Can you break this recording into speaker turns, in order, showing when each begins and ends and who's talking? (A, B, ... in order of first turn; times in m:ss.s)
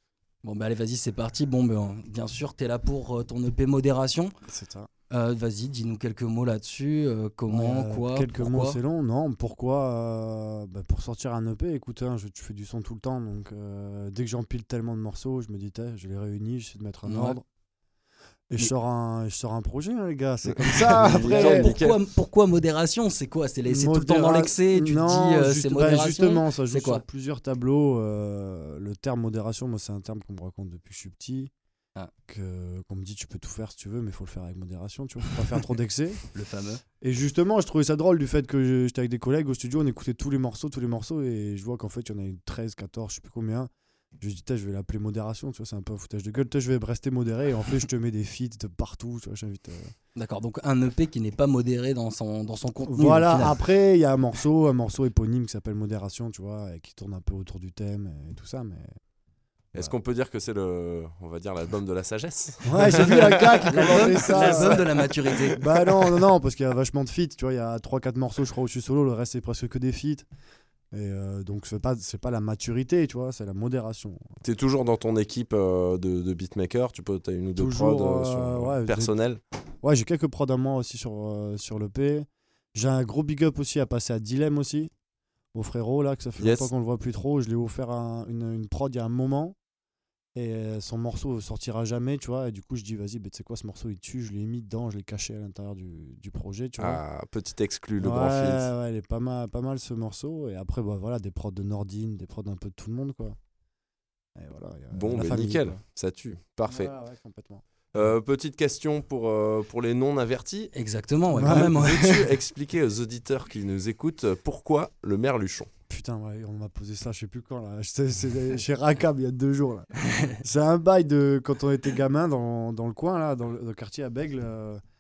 0:00.4-0:04.3 A
0:04.5-0:04.9 B
0:05.1-0:08.8 A
0:07.5-0:17.4 B
0:17.1-0:17.4 A
0:18.5-0:21.8 B
0:21.1-0:27.0 A
0:21.1-0:22.0 C
0:23.6-0:31.5 B
0:32.3-0:36.2 B
0:36.3-0:36.8 A
0:37.0-0:49.9 B
0:50.2-0:53.6 A
0:52.8-0:58.9 B
0:59.7-1:03.6 C
1:02.6-1:04.9 B
1:03.0-1:05.6 A
1:05.6-1:10.3 B
1:10.9-1:14.4 B
1:14.4-1:19.4 C
1:17.6-1:19.2 B
1:19.8-1:24.9 B
1:25.5-1:29.6 B
1:26.4-1:26.7 C
1:30.4-1:37.0 B
1:36.8-1:38.7 C
1:38.0-1:43.4 B
1:44.4-1:45.8 B
1:44.9-1:46.9 C
1:46.7-1:48.1 B
1:47.9-1:50.7 C
1:50.7-1:52.4 A
1:51.3-1:51.8 B
1:51.7-1:55.7 C
1:55.9-2:04.8 B